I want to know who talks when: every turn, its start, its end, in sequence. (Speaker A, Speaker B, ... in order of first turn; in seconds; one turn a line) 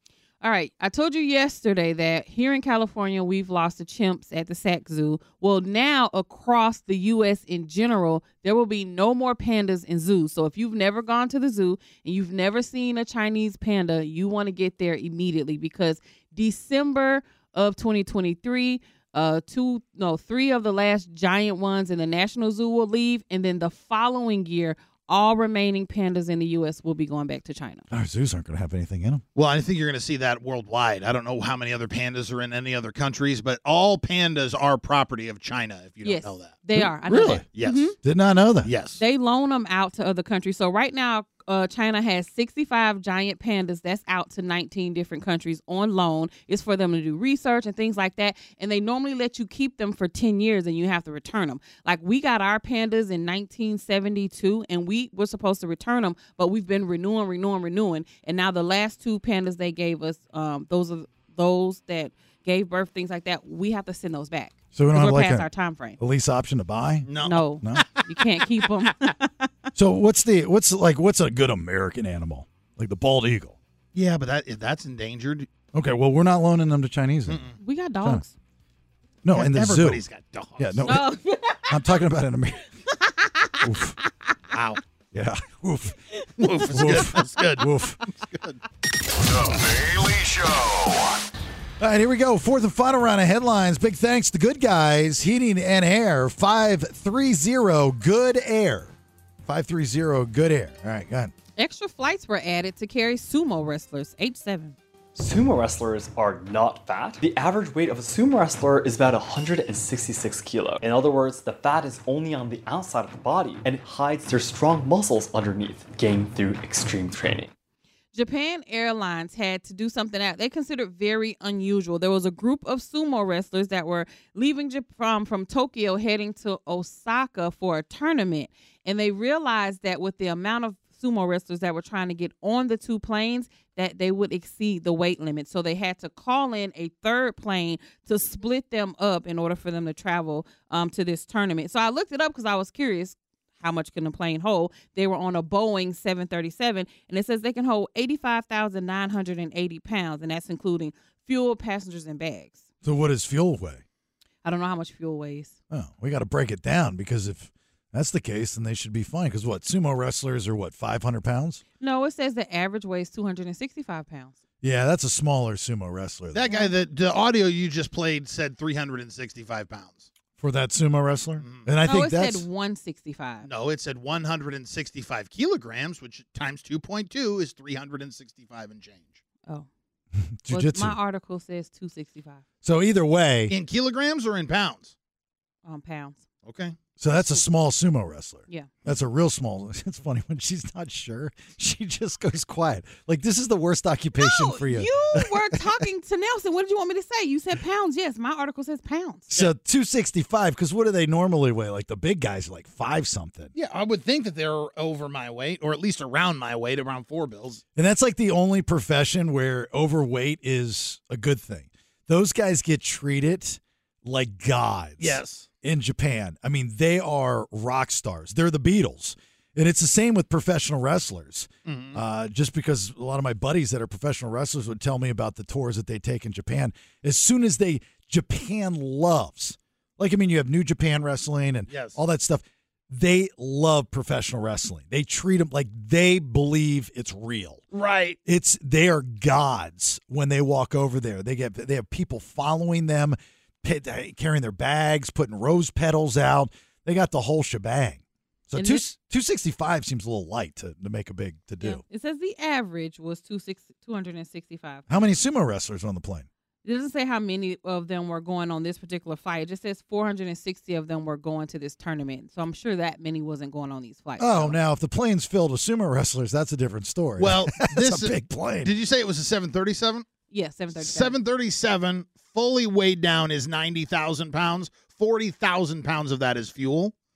Speaker A: 0.4-27.9
Speaker B: 27.9-29.2
Speaker C: 29.3-36.6
Speaker A: 36.0-37.9
Speaker B: 36.7-37.5
Speaker C: 37.5-38.0
Speaker B: 38.0-38.7
Speaker C: 38.6-39.0
Speaker A: 39.0-66.0
Speaker B: 64.7-65.5
Speaker B: 66.0-67.9
Speaker C: 67.1-68.0
Speaker A: 67.2-69.5
Speaker B: 69.7-73.6
Speaker C: 73.9-75.5
Speaker B: 75.7-77.4
Speaker C: 77.3-77.6
Speaker A: 77.6-78.3
Speaker B: 79.2-80.0
Speaker C: 79.3-81.0
Speaker B: 80.6-82.6
Speaker A: 80.9-81.8
Speaker A: 82.9-84.1
Speaker B: 83.6-84.0
Speaker C: 84.5-84.8
Speaker B: 85.1-86.0
Speaker A: 86.1-87.2
Speaker C: 86.4-88.6
Speaker B: 86.7-88.0
Speaker D: 89.2-91.2
Speaker B: 91.8-98.9
Speaker B: 99.4-101.3
Speaker A: 101.6-104.8
Speaker E: 105.1-117.5
Speaker A: 118.1-152.6
Speaker B: 152.8-153.8
Speaker A: 154.4-155.5
Speaker B: 155.7-161.6
Speaker A: 161.8-164.4
Speaker B: 164.6-166.5
Speaker C: 166.3-170.1
Speaker A: 166.5-166.7
Speaker B: 170.4-172.4
Speaker C: 171.4-171.7
Speaker A: 171.8-173.5
Speaker C: 173.4-179.2
Speaker B: 180.2-180.9
Speaker A: 180.5-182.4
Speaker B: 182.6-183.5
Speaker C: 183.5-184.9
Speaker A: 185.7-186.2
Speaker C: 186.4-186.8
Speaker B: 187.0-195.8
Speaker A: 194.2-199.3
Speaker B: 199.3-203.5
Speaker C: 203.5-207.6
Speaker B: 207.7-237.6
Speaker C: 215.0-215.5
Speaker C: 221.6-222.0
Speaker C: 231.7-232.0
Speaker C: 237.7-238.2
Speaker B: 238.2-251.8
Speaker A: 248.5-248.8
Speaker A: 251.6-254.8
Speaker B: 254.9-256.3
Speaker A: 256.6-264.6
Speaker B: 264.2-268.7
Speaker C: 267.2-270.1
Speaker A: 270.3-271.1
Speaker C: 270.7-276.9